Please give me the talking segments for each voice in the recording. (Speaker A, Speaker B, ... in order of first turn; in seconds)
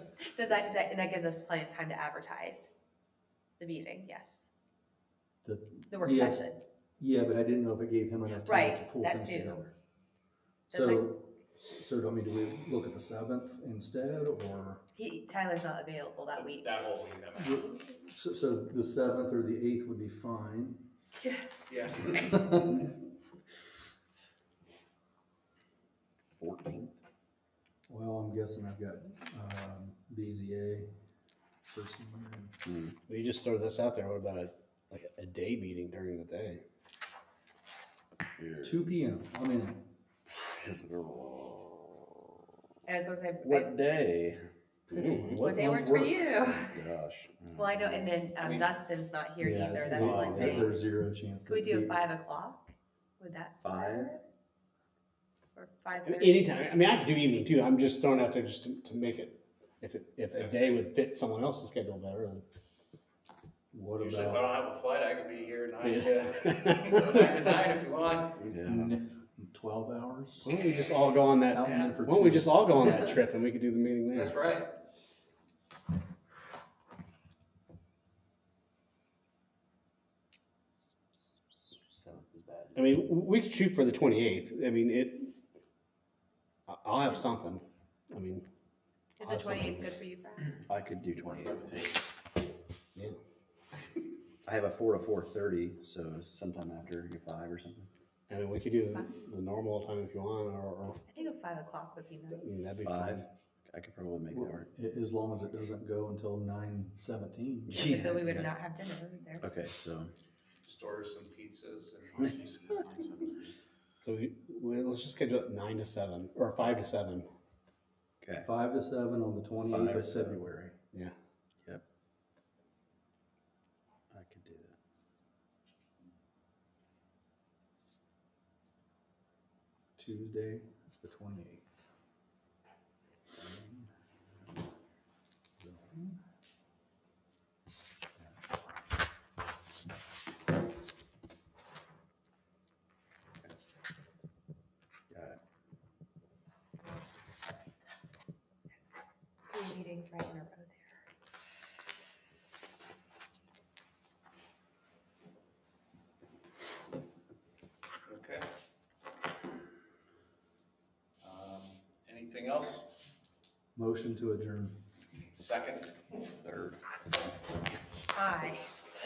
Speaker A: 0.3-2.7, 3.6-4.5, 5.9-6.6, 8.4-9.6, 10.7-11.1, 14.9-16.8, 21.2-21.5, 42.9-43.7, 45.4-46.8, 47.6-50.8, 51.5-54.2, 55.5-56.7, 89.2-90.6, 101.1-102.6, 107.7-109.5, 149.5-150.9, 168.1-168.7
Speaker B: 5.4-6.4, 7.0-9.7, 10.7-14.8, 17.4-20.8, 22.1-22.9, 27.9-30.9, 31.6-32.6, 38.6-39.8, 45.2-46.5, 49.4-52.0, 63.7-64.6, 68.6-70.5, 71.5-72.9, 104.3-107.9, 118.4-120.8, 130.0-131.7, 135.6-136.1, 163.8-164.8
Speaker C: 16.3-17.6, 21.7-22.1, 48.3-48.8, 60.3-60.6, 64.0-68.4, 71.6-72.0, 74.1-74.7, 110.6-113.5, 158.1-158.5, 161.2-162.9, 165.3-165.9
Speaker D: 26.3-27.0, 32.6-33.0, 38.4-38.8, 40.3-42.1, 43.4-45.5, 46.5-48.2, 49.4-50.7, 53.6-54.1, 68.4-68.9, 81.1-82.9, 90.7-92.0, 94.5-97.9, 102.8-104.7, 107.7-108.5, 109.4-110.1, 118.2-118.5, 119.6-120.4, 124.1-124.8, 145.1-145.4, 166.4-166.8
Speaker E: 33.1-36.6, 44.9-45.4, 50.0-50.7, 56.0-62.4, 65.8-67.3, 70.4-74.4, 82.8-85.3, 86.7-88.5, 89.2-90.0, 98.3-101.0, 102.3-103.3, 114.0-117.3